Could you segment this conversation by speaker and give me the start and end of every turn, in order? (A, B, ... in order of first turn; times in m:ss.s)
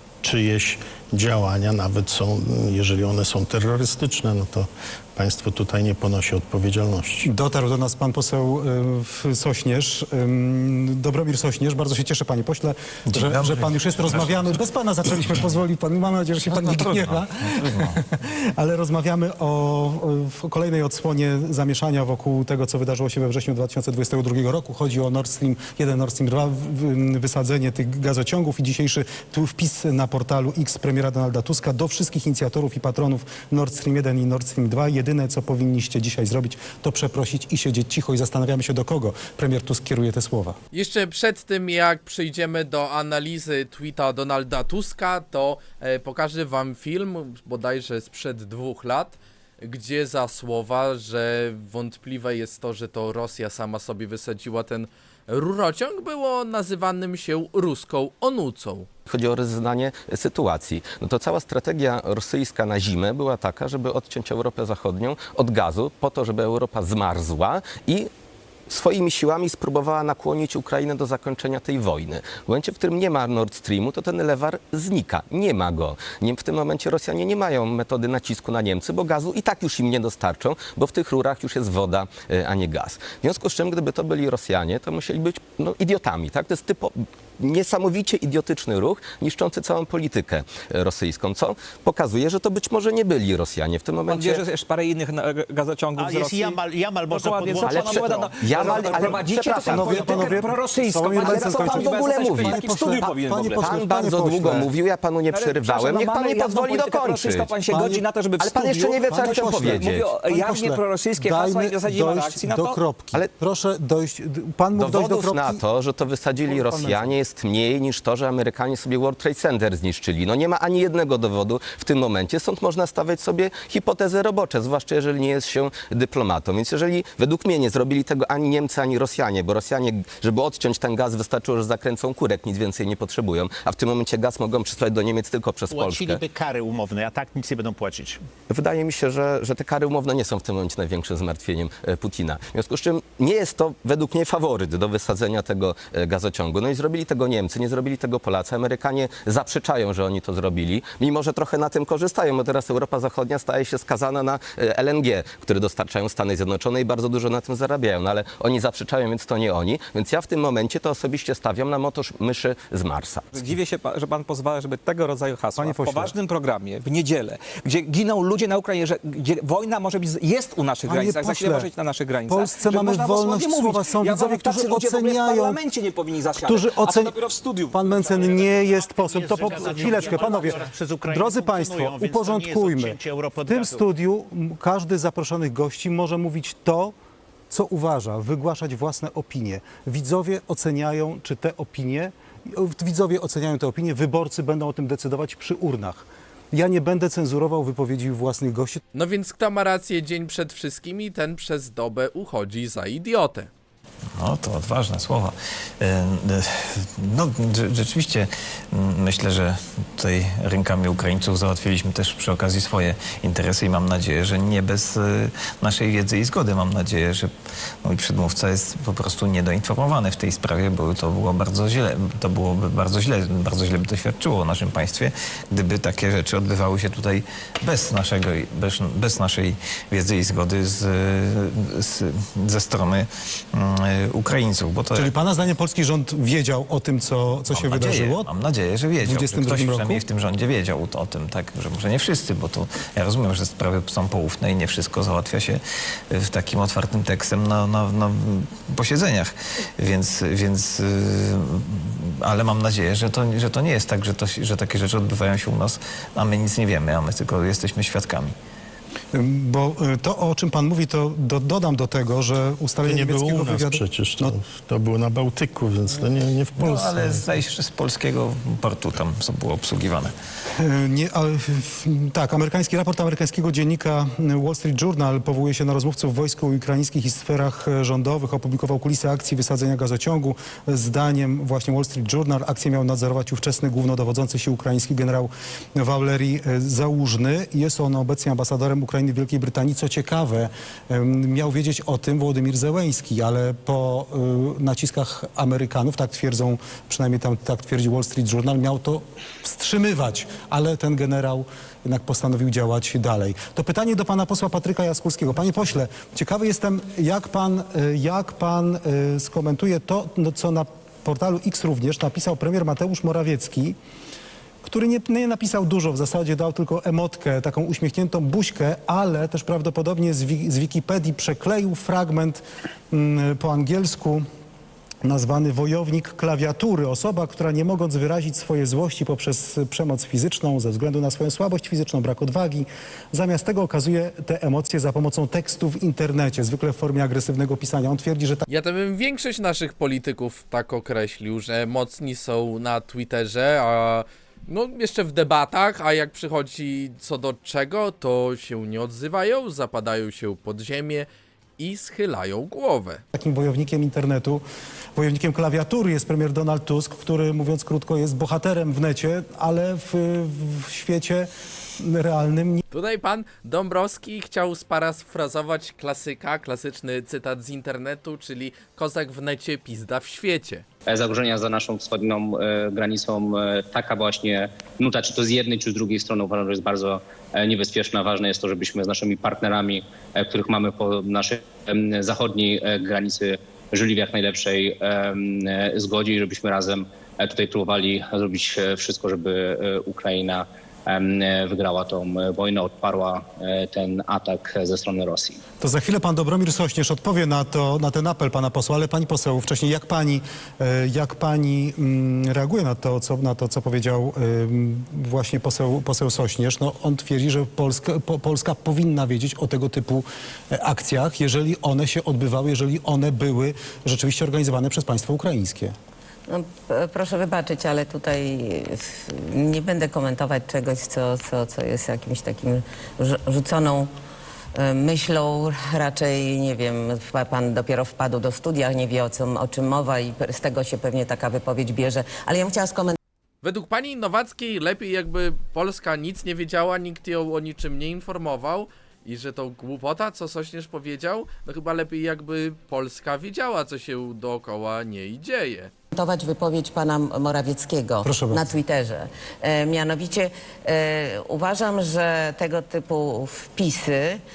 0:00.2-0:07.3 A
0:07.2-0:40.6 B
0:13.1-0:14.6 C
0:16.5-0:18.0 C
0:40.7-0:58.9 D
0:59.1-1:08.1 E
1:08.7-1:34.4 E
1:34.1-1:43.8 F
1:36.0-1:39.1 G
1:37.6-1:40.4 E
1:39.5-1:44.7 B
1:41.2-1:47.6 E
1:45.3-1:52.8 F
1:47.7-1:48.1 B
1:48.4-1:50.2 E
1:49.0-1:55.6 B
1:54.8-2:16.2 E
1:56.5-1:57.0 B
2:15.7-2:18.2 G
2:18.5-2:43.3 E
2:43.3-2:58.4 F
2:45.6-2:46.1 B
2:50.9-2:51.7 B
2:52.2-2:55.6 B
2:56.4-2:57.2 B
2:57.7-3:07.0 B
2:58.2-3:03.8 G
3:07.5-3:18.8 B
3:19.0-3:23.5 D
3:24.2-3:37.3 C
3:37.8-3:55.1 C
3:54.9-3:58.3 B
3:57.5-4:18.3 C
3:59.0-4:00.0 B
4:19.1-4:24.3 B
4:22.8-4:27.2 A
4:26.6-4:30.1 C
4:30.6-5:13.8 B
5:14.6-5:24.2 B
5:25.0-5:38.5 B
5:38.5-5:51.1 D
5:51.6-5:53.0 D
5:53.1-5:54.4 B
5:55.0-6:02.6 B
6:02.7-6:10.6 D
6:10.9-6:35.4 H
6:35.6-6:55.7 B
6:56.3-7:03.9 I
7:04.6-7:13.0 I
7:13.4-7:25.7 D
7:25.9-7:34.2 I
7:28.0-7:28.4 B